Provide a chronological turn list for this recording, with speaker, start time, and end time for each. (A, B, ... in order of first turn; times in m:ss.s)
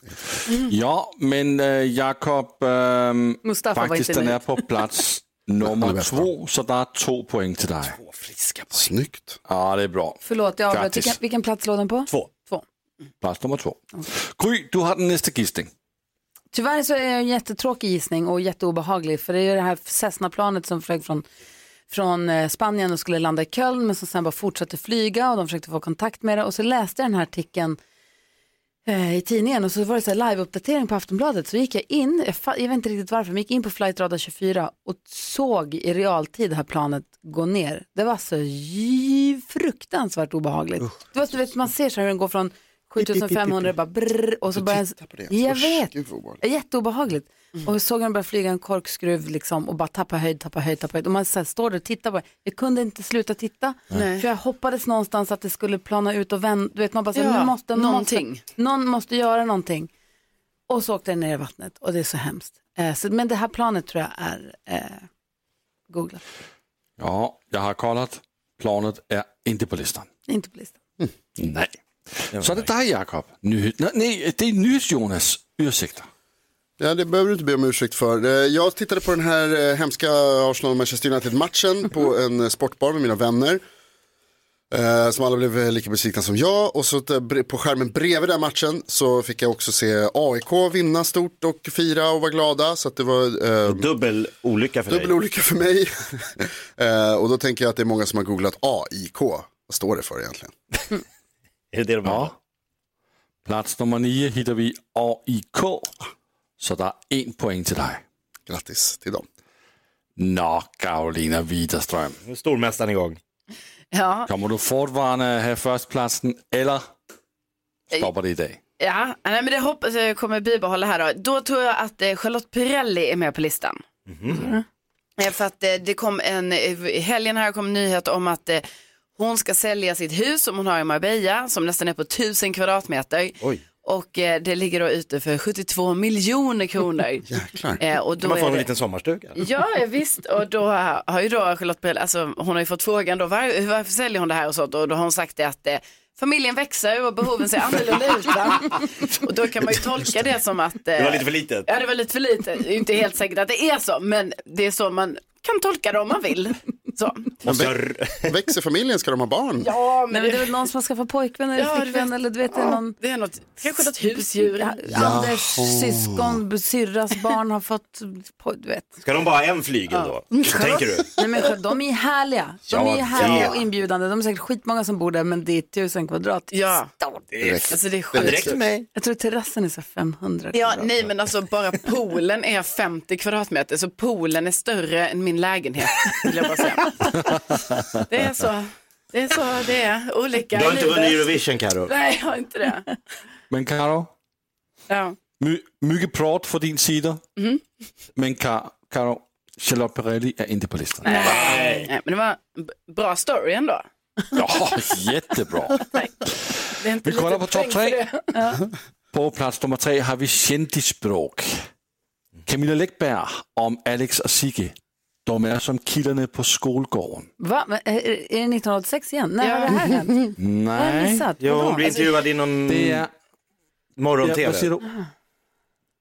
0:00.7-0:08.0 A
0:03.4-0:04.6 B
0:05.6-0:06.3 C
0:07.8-0:08.9 D
0:08.7-0:09.4 C
0:09.4-0:11.2 A
0:10.2-0:12.6 B
0:13.2-0:15.7 A
0:16.5-0:21.2 B
0:21.9-0:27.8 B
0:28.8-0:59.9 B
0:43.0-0:43.7 C
0:44.5-0:46.4 C
0:53.9-0:54.2 E
0:57.1-0:58.4 E
1:00.7-1:05.1 B
1:05.9-1:06.2 B
1:07.0-1:10.1 A
1:10.3-1:10.7 B
1:11.4-1:16.1 A
1:12.3-1:12.7 D
1:16.8-1:23.6 C
1:24.7-1:33.9 C
1:33.6-1:35.1 D
1:34.9-1:40.5 C
1:41.7-1:42.3 D
1:42.0-1:42.3 A
1:43.4-1:45.9 A
1:46.6-1:48.0 A
1:48.5-1:49.2 C
1:50.2-1:52.2 A
1:52.2-1:53.2 D
1:53.9-1:54.3 E
1:54.3-1:56.9 A
1:58.0-1:58.6 A
1:58.8-2:03.8 E
2:04.1-2:04.4 D
2:04.3-2:04.6 B
2:05.2-2:08.6 E
2:09.2-2:17.3 E
2:17.3-2:17.8 C
2:17.8-2:18.7 E
2:18.2-2:19.4 D
2:19.4-2:37.4 E
2:31.0-2:31.7 D
2:37.4-2:38.3 D
2:37.4-2:39.7 C
2:39.6-2:40.5 E
2:40.1-2:43.0 B
2:41.6-2:44.8 E
2:44.0-2:49.0 B
2:44.9-2:46.4 C
2:49.0-2:51.1 D
2:50.3-2:57.2 B
2:52.7-2:53.6 D
2:53.1-2:53.5 E
2:56.5-2:56.9 E
2:57.3-2:58.8 D
2:57.4-2:58.8 C
2:57.7-2:58.6 E
2:58.9-3:00.6 B
3:00.5-3:07.0 E
3:07.3-3:08.0 A
3:08.1-3:11.3 E
3:10.5-3:11.9 D
3:11.9-3:12.8 E
3:13.5-3:14.1 A
3:14.9-3:15.2 E
3:15.4-3:17.2 A
3:17.4-3:17.6 E
3:18.2-3:21.4 A
3:21.0-3:23.8 E
3:21.2-3:21.9 D
3:24.3-3:26.3 A
3:26.8-3:28.2 E
3:27.0-3:28.0 A
3:28.3-3:28.6 B
3:29.1-3:31.6 A
3:32.4-3:37.3 A
3:37.4-3:40.2 B
3:39.4-3:39.7 E
3:40.4-3:41.3 A
3:40.7-3:41.9 B
3:41.4-3:43.0 D
3:42.7-3:43.1 A
3:44.0-3:44.7 D
3:44.2-3:44.8 A